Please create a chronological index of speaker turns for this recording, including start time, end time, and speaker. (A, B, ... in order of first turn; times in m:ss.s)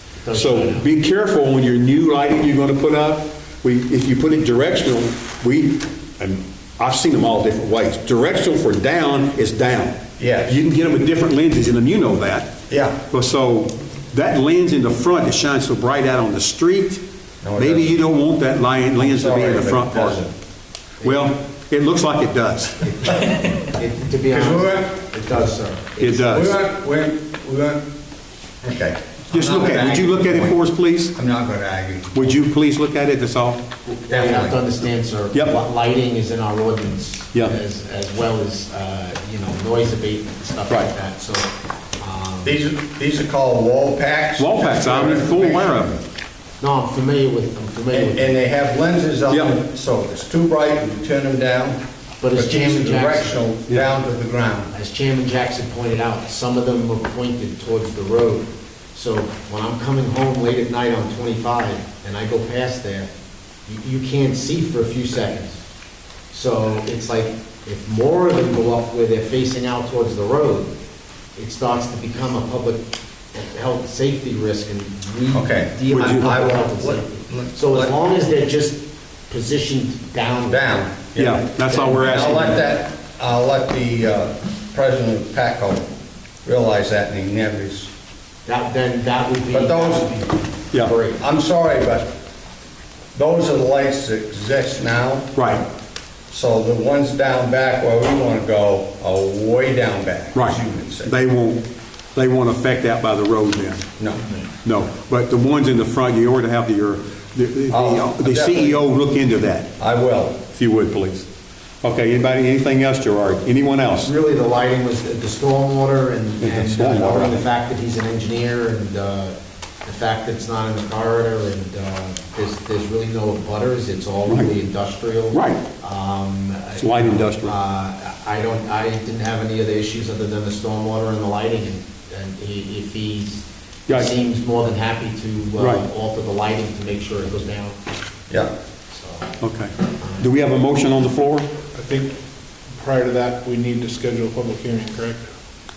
0:00.2-0:00.9 A
0:00.3-0:12.6 B
0:10.2-0:10.6 C
0:12.7-0:13.0 C
0:13.1-0:17.0 B
0:17.4-0:18.0 C
0:17.6-0:20.3 B
0:19.0-0:20.3 C
0:21.0-0:21.3 A
0:21.0-0:22.8 B
0:22.8-0:26.5 A
0:24.3-0:25.0 C
0:26.0-0:26.6 B
0:26.3-0:27.8 C
0:28.6-0:30.6 C
0:29.3-0:31.2 B
0:31.1-0:32.4 C
0:32.1-0:33.6 B
0:33.9-0:41.5 A
0:34.1-0:34.6 C
0:42.0-0:42.6 A
0:42.4-0:46.0 C
0:44.4-0:46.0 B
0:46.6-0:48.3 A
0:47.9-0:51.8 C
0:52.2-0:53.4 A
0:52.3-0:54.7 C
0:54.7-1:03.1 A
1:03.7-1:05.6 A
1:06.3-1:10.7 A
1:11.4-1:20.7 A
1:15.3-1:18.0 C
1:15.9-1:16.4 B
1:20.5-1:25.9 C
1:21.2-1:22.5 B
1:21.6-1:22.7 A
1:26.4-1:27.9 C
1:28.5-1:31.2 A
1:29.5-1:30.1 C
1:31.2-1:32.1 C
1:33.1-1:35.3 C
1:35.4-1:35.6 B
1:36.3-1:41.1 C
1:40.3-1:41.6 B
1:42.2-1:43.8 B
1:44.6-1:49.7 B
1:47.7-1:48.9 C
1:49.8-1:50.4 C
1:50.5-1:51.3 B
1:51.8-1:54.1 B
1:54.0-2:17.8 A
1:56.4-1:57.4 B
2:04.3-2:04.5 B
2:05.3-2:05.6 B
2:06.8-2:07.5 B
2:15.6-2:15.8 B
2:18.9-2:19.3 A
2:19.4-2:21.5 B
2:20.0-2:20.2 A
2:21.7-2:22.2 D
2:22.7-2:25.3 D